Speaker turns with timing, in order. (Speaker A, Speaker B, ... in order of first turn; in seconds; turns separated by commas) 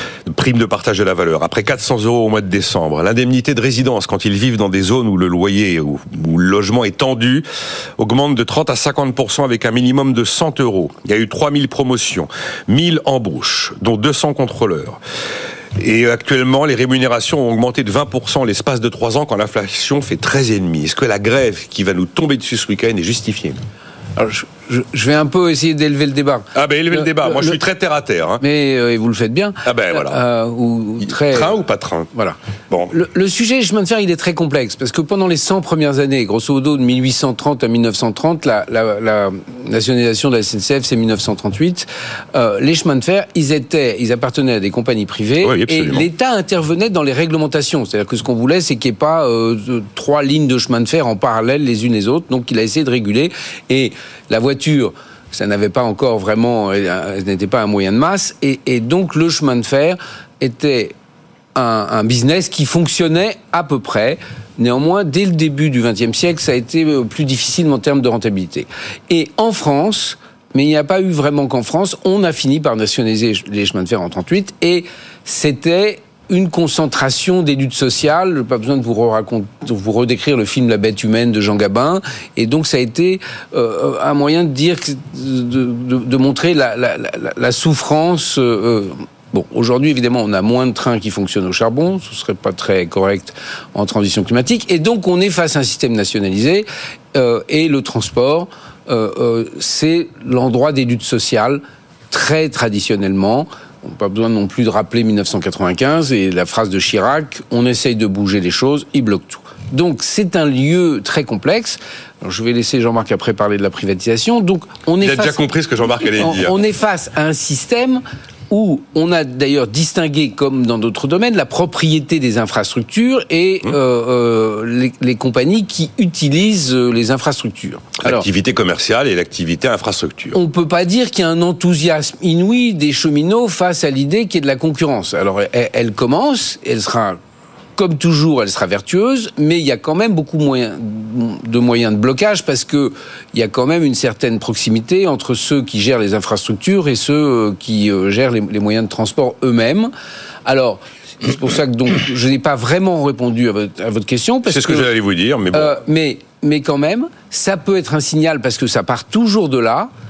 Speaker A: 0.3-7.5, Speaker A: 8.0-15.0, Speaker A: 15.8-23.6, Speaker B: 24.2-27.6, Speaker A: 26.6-28.4, Speaker B: 28.4-31.6, Speaker A: 29.6-30.2, Speaker A: 31.0-32.1, Speaker A: 32.7-33.0, Speaker B: 32.9-60.9, Speaker A: 45.4-46.1, Speaker B: 61.5-128.2, Speaker A: 115.0-116.6, Speaker A: 128.0-130.4, Speaker B: 130.3-137.2, Speaker B: 137.8-149.9, Speaker B: 150.4-154.9, Speaker A: 154.4-155.8, Speaker B: 155.5-159.9